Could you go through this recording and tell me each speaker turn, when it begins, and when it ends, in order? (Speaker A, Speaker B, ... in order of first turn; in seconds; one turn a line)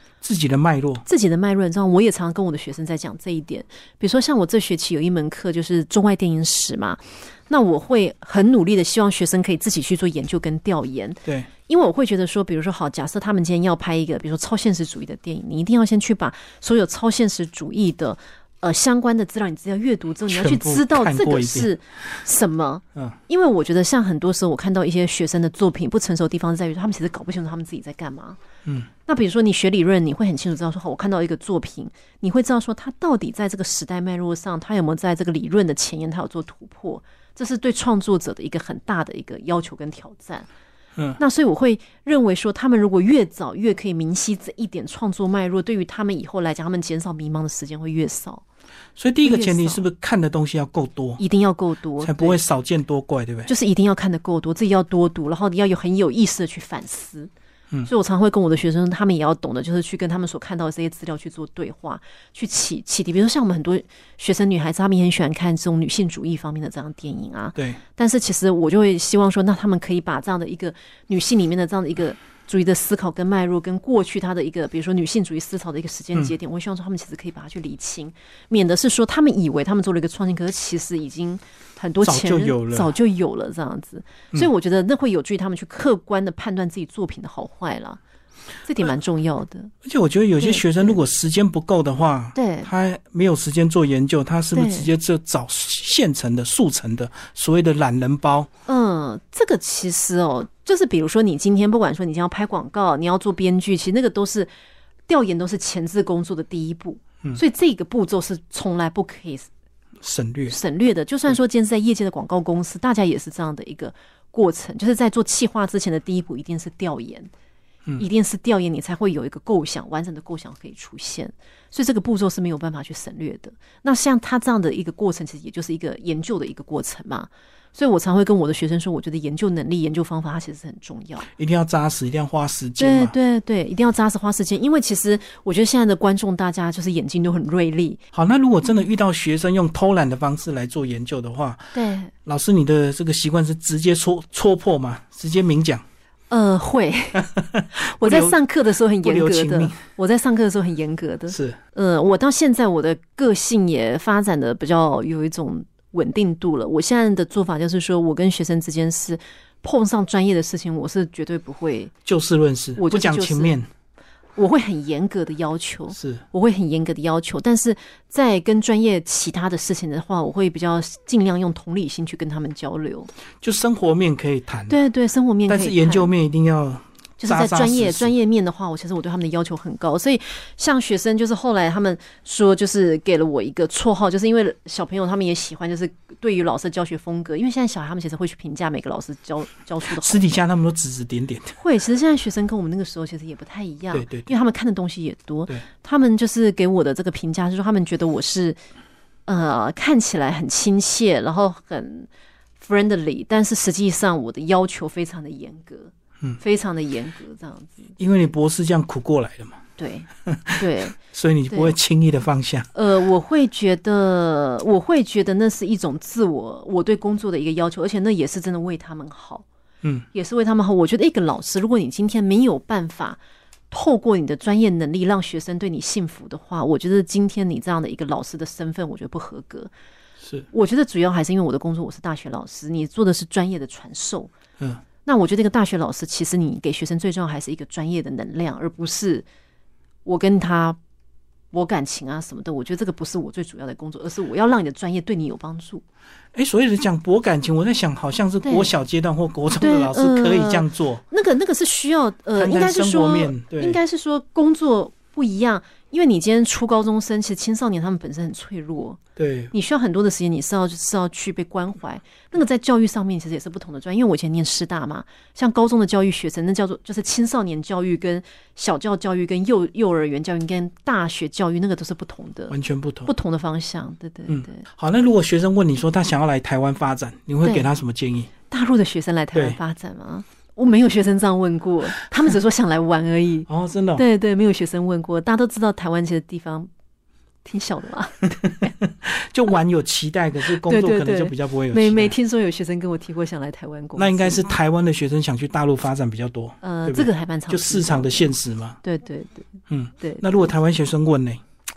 Speaker A: 0.2-1.1
Speaker B: 1.1-28.4
Speaker A: 20.3-21.7
Speaker B: 29.1-40.5
Speaker B: 41.2-48.4
Speaker A: 49.0-51.2
Speaker B: 49.2-49.8
Speaker B: 51.2-52.4
Speaker A: 52.0-53.5
Speaker B: 53.5-57.3
Speaker B: 57.9-88.0
Speaker A: 82.0-82.9
Speaker B: 88.7-89.7
Speaker A: 89.8-98.5
Speaker B: 90.4-91.0
Speaker B: 92.3-92.7
Speaker B: 94.5-94.9
Speaker B: 98.7-104.5
Speaker B: 105.1-109.5
Speaker A: 110.0-110.6
Speaker B: 110.5-117.3
Speaker B: 118.0-131.3
Speaker A: 131.4-133.1
Speaker B: 132.8-138.0
Speaker A: 138.1-141.7
Speaker B: 141.7-142.1
Speaker A: 142.2-145.8
Speaker B: 146.3-147.2
Speaker A: 147.2-148.4
Speaker B: 147.8-161.9
Speaker A: 149.0-149.8
Speaker A: 151.3-151.6
Speaker A: 162.1-163.7
Speaker B: 162.8-163.6
Speaker B: 164.4-173.1
Speaker A: 165.9-166.2
Speaker A: 173.4-174.8
Speaker B: 174.7-176.1
Speaker A: 175.5-178.1
Speaker B: 177.2-190.3
Speaker A: 189.9-191.6
Speaker B: 191.6-198.6
Speaker A: 193.9-194.3
Speaker B: 199.3-207.9
Speaker A: 208.0-209.6
Speaker B: 209.8-211.0
Speaker A: 210.2-212.7
Speaker B: 211.5-211.8
Speaker B: 212.7-219.4
Speaker B: 220.1-223.2
Speaker B: 223.7-229.7
Speaker B: 230.5-234.3
Speaker B: 235.1-239.3
Speaker B: 240.1-240.8
Speaker B: 241.5-245.8
Speaker A: 246.3-251.0
Speaker B: 248.4-248.7
Speaker B: 249.5-259.0
Speaker A: 252.4-253.8
Speaker A: 259.2-259.5
Speaker B: 259.5-272.6
Speaker A: 272.5-273.1
Speaker B: 273.1-274.6
Speaker A: 274.3-278.3
Speaker B: 277.4-277.7
Speaker B: 278.5-286.7
Speaker A: 283.5-284.0
Speaker B: 287.4-288.7
Speaker A: 288.4-292.1
Speaker B: 290.5-294.5
Speaker A: 294.0-298.8
Speaker B: 296.6-298.3
Speaker B: 298.8-299.5
Speaker A: 299.7-301.4
Speaker B: 300.0-300.5